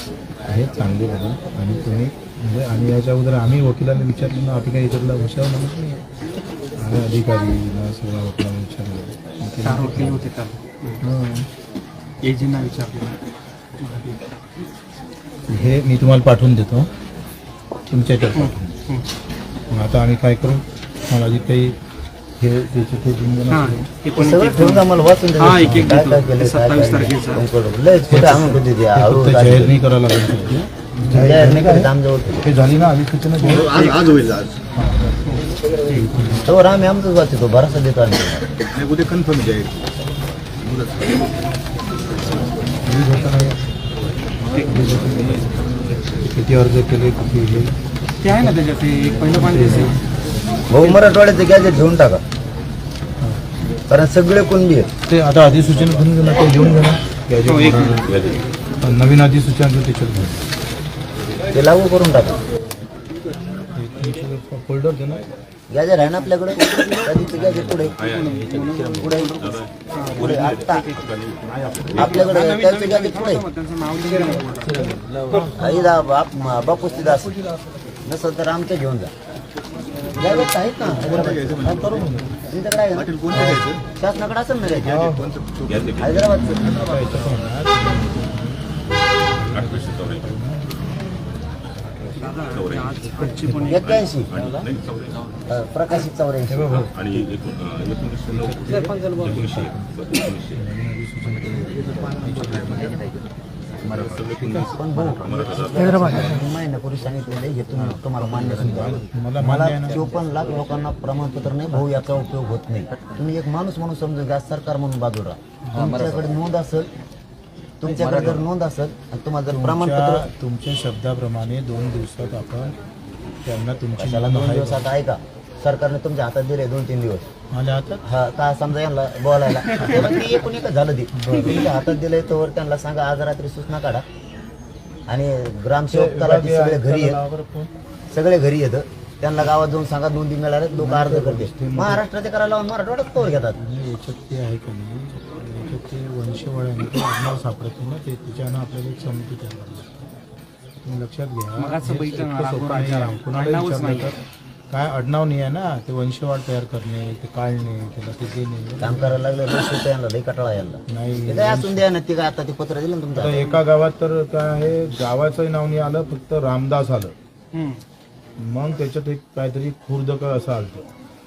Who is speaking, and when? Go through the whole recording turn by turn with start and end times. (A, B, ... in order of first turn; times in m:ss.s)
0:00.5-0:06.0 A
0:06.8-0:10.3 A
0:09.6-0:11.0 B
0:11.0-0:11.5 A
0:12.2-0:13.2 B
0:13.8-0:14.2 B
0:15.5-0:16.9 A
0:17.9-0:18.8 A
0:18.4-0:19.0 B
0:19.7-0:21.8 A
0:22.4-0:23.9 A
0:23.5-0:27.5 B
0:24.2-0:32.5 C
0:25.6-0:26.0 A
0:28.1-0:31.9 A
0:32.4-0:33.7 A
0:33.4-0:34.3 B
0:33.5-0:34.6 D
0:34.8-0:35.2 A
0:35.3-0:36.1 B
0:35.9-0:36.5 A
0:36.5-0:38.4 C
0:38.6-0:40.0 D
0:40.6-0:41.2 D
0:42.8-0:43.6 A
0:44.5-0:44.8 B
0:44.6-0:47.7 A
0:48.2-0:50.0 B
0:48.3-0:48.6 A
0:49.3-0:50.0 A
0:50.7-0:52.2 C
0:53.9-0:54.9 C
0:55.1-0:58.1 A
0:57.4-0:58.5 B
0:58.1-0:58.4 E
0:58.8-1:00.5 A
1:01.5-1:02.4 C
1:03.8-1:05.3 A
1:05.7-1:08.0 C
1:07.6-1:07.9 A
1:08.0-1:12.1 E
1:08.4-1:09.3 B
1:08.9-1:09.4 C
1:09.9-1:11.0 B
1:10.1-1:10.9 C
1:11.9-1:13.5 C
1:12.0-1:15.0 B
1:15.6-1:17.4 C
1:18.0-1:19.1 C
1:20.2-1:22.0 C
1:21.2-1:21.6 D
1:21.6-1:22.3 A
1:22.5-1:25.1 C
1:23.0-1:23.8 D
1:24.8-1:25.4 A
1:25.0-1:26.0 D
1:25.6-1:26.3 E
1:26.0-1:26.7 C
1:26.4-1:28.6 A
1:29.3-1:30.8 A
1:29.5-1:30.3 E
1:32.2-1:33.8 B
1:32.5-1:33.1 E
1:33.2-1:33.7 A
1:33.7-1:34.3 C
1:33.7-1:35.2 E
1:35.5-1:36.8 C
1:36.5-1:37.2 A
1:36.8-1:40.6 E
1:38.6-1:39.9 A
1:40.6-1:43.0 A
1:42.0-1:42.9 D
1:43.8-1:46.3 E
1:44.4-1:44.8 A
1:44.7-1:56.9 C
1:45.9-1:46.4 A
1:47.7-1:50.0 A
1:51.5-1:52.2 A
1:55.7-1:56.2 A
1:57.8-2:00.2 C
1:57.9-1:58.4 A
1:59.5-2:02.8 A
2:03.4-2:04.9 A
2:04.0-2:07.3 C
2:07.5-2:08.0 A
2:08.0-2:14.0 C
2:11.1-2:11.6 A
2:15.1-2:17.2 C
2:15.9-2:17.7 A
2:18.1-2:23.6 C
2:20.8-2:22.0 A
2:23.2-2:30.1 A
2:30.8-2:34.2 A
2:31.6-2:34.2 B
2:34.7-2:39.2 A
2:38.8-2:43.5 C
2:40.9-2:41.9 A
2:43.1-2:47.1 A
2:47.5-2:47.8 B
2:48.4-2:50.9 A